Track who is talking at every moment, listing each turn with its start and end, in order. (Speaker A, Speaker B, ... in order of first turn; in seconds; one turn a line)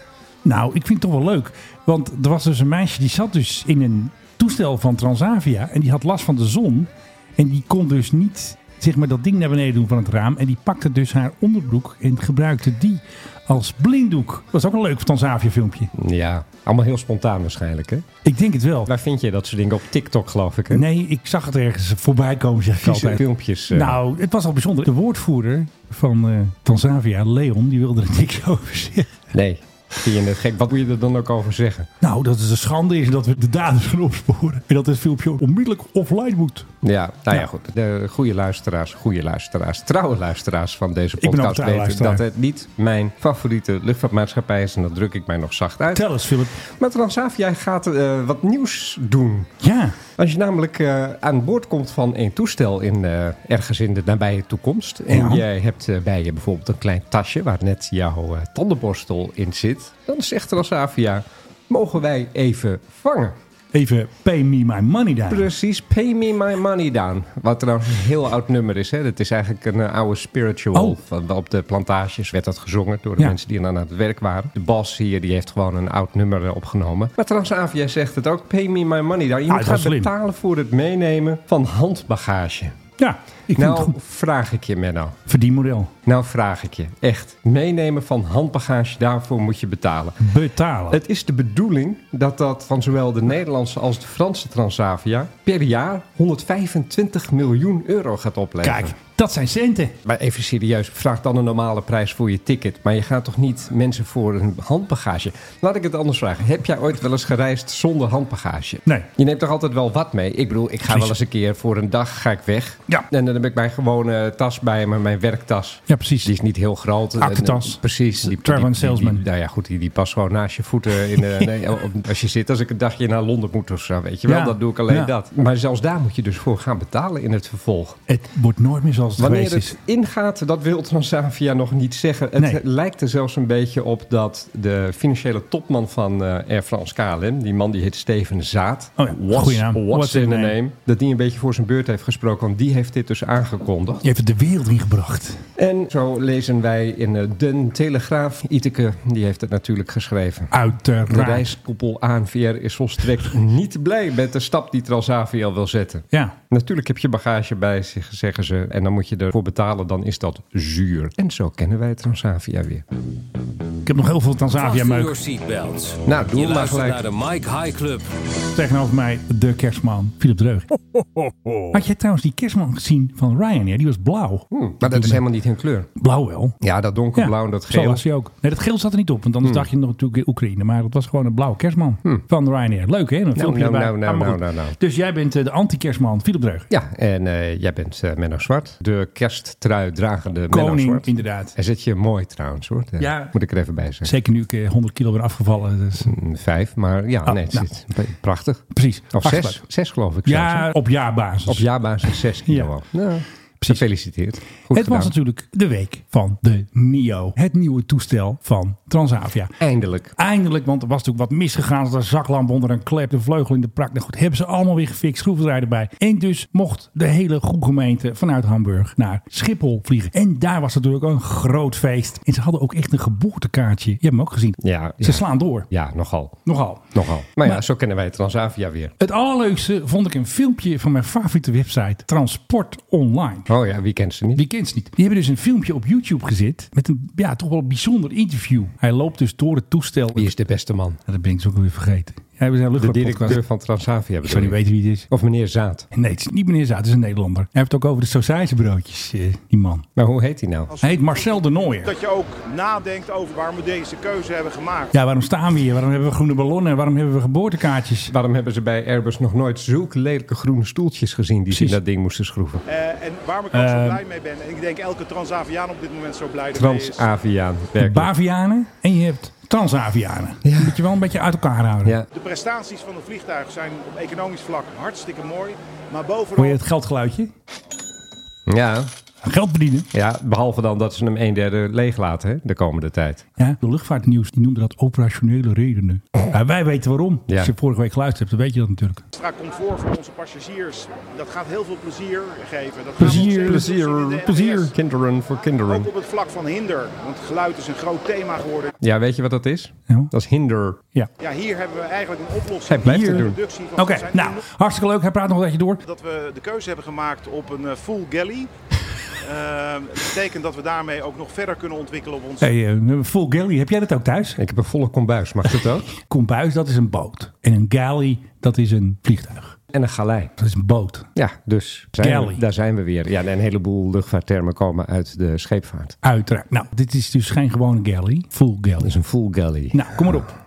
Speaker A: 0.5-15.9
Speaker B: 15.9-18.1
Speaker A: 18.2-18.9
Speaker B: 18.9-20.9
Speaker A: 20.7-29.2
Speaker B: 22.8-24.0
Speaker B: 29.3-31.9
Speaker A: 32.0-36.7
Speaker B: 36.8-49.5
Speaker A: 41.2-42.2
Speaker A: 45.9-46.6
Speaker A: 49.6-50.0
Speaker B: 50.1-63.4
Speaker A: 55.1-55.4
Speaker A: 63.7-65.5
Speaker B: 65.3-82.8
Speaker A: 79.5-80.1
Speaker A: 83.0-84.0
Speaker B: 83.5-85.2
Speaker A: 85.3-85.9
Speaker B: 86.1-90.3
Speaker A: 90.2-91.0
Speaker B: 90.9-98.9
Speaker A: 98.6-100.0
Speaker B: 100.0-128.0
Speaker A: 110.9-111.1
Speaker A: 115.9-116.3
Speaker A: 117.2-119.2
Speaker A: 124.3-125.1
Speaker A: 128.1-129.8
Speaker B: 129.2-144.0
Speaker A: 139.0-140.6
Speaker A: 144.0-145.4
Speaker B: 145.6-150.5
Speaker A: 150.5-151.5
Speaker B: 151.1-162.8
Speaker A: 163.8-165.2
Speaker C: 164.6-168.1
Speaker B: 166.1-167.1
Speaker A: 168.5-170.7
Speaker A: 171.7-175.2
Speaker B: 174.5-175.9
Speaker A: 176.0-176.6
Speaker B: 176.6-178.0
Speaker A: 177.2-186.7
Speaker B: 179.4-179.7
Speaker B: 183.3-184.8
Speaker B: 186.7-194.1
Speaker A: 190.5-191.5
Speaker A: 193.0-193.3
Speaker A: 194.0-196.1
Speaker B: 196.0-200.7
Speaker A: 197.3-197.7
Speaker A: 198.7-199.6
Speaker A: 200.2-202.7
Speaker B: 201.5-205.1
Speaker A: 204.7-209.5
Speaker B: 209.6-210.2
Speaker A: 210.2-225.7
Speaker B: 224.6-226.4
Speaker A: 226.5-227.6
Speaker B: 226.9-228.9
Speaker A: 229.0-233.5
Speaker B: 233.5-234.4
Speaker A: 234.3-240.3
Speaker B: 240.2-241.0
Speaker A: 241.1-243.4
Speaker B: 242.8-245.9
Speaker A: 244.2-245.1
Speaker A: 245.9-249.9
Speaker B: 250.0-250.7
Speaker D: 250.7-254.9
Speaker A: 250.8-251.9
Speaker A: 254.9-258.1
Speaker B: 258.1-262.6
Speaker A: 261.5-261.8
Speaker D: 262.7-267.1
Speaker A: 263.5-264.0
Speaker B: 266.6-268.1
Speaker A: 267.8-272.0
Speaker B: 270.4-270.8
Speaker D: 272.1-276.6
Speaker A: 276.4-277.3
Speaker B: 278.5-278.9
Speaker A: 279.2-279.9
Speaker B: 279.9-283.2
Speaker A: 283.4-289.0
Speaker D: 289.1-294.7
Speaker A: 293.0-294.7
Speaker B: 293.0-295.9
Speaker D: 295.7-298.7
Speaker B: 298.8-300.8
Speaker D: 301.2-304.4
Speaker B: 302.7-303.4
Speaker A: 302.8-305.8
Speaker D: 305.8-308.5
Speaker D: 309.2-312.5
Speaker A: 312.4-314.4
Speaker B: 314.4-315.9
Speaker A: 315.9-319.6
Speaker B: 319.7-320.3
Speaker A: 320.4-321.1
Speaker B: 321.2-326.0
Speaker A: 322.0-322.4
Speaker A: 326.0-328.9
Speaker B: 328.8-330.3
Speaker A: 329.7-330.3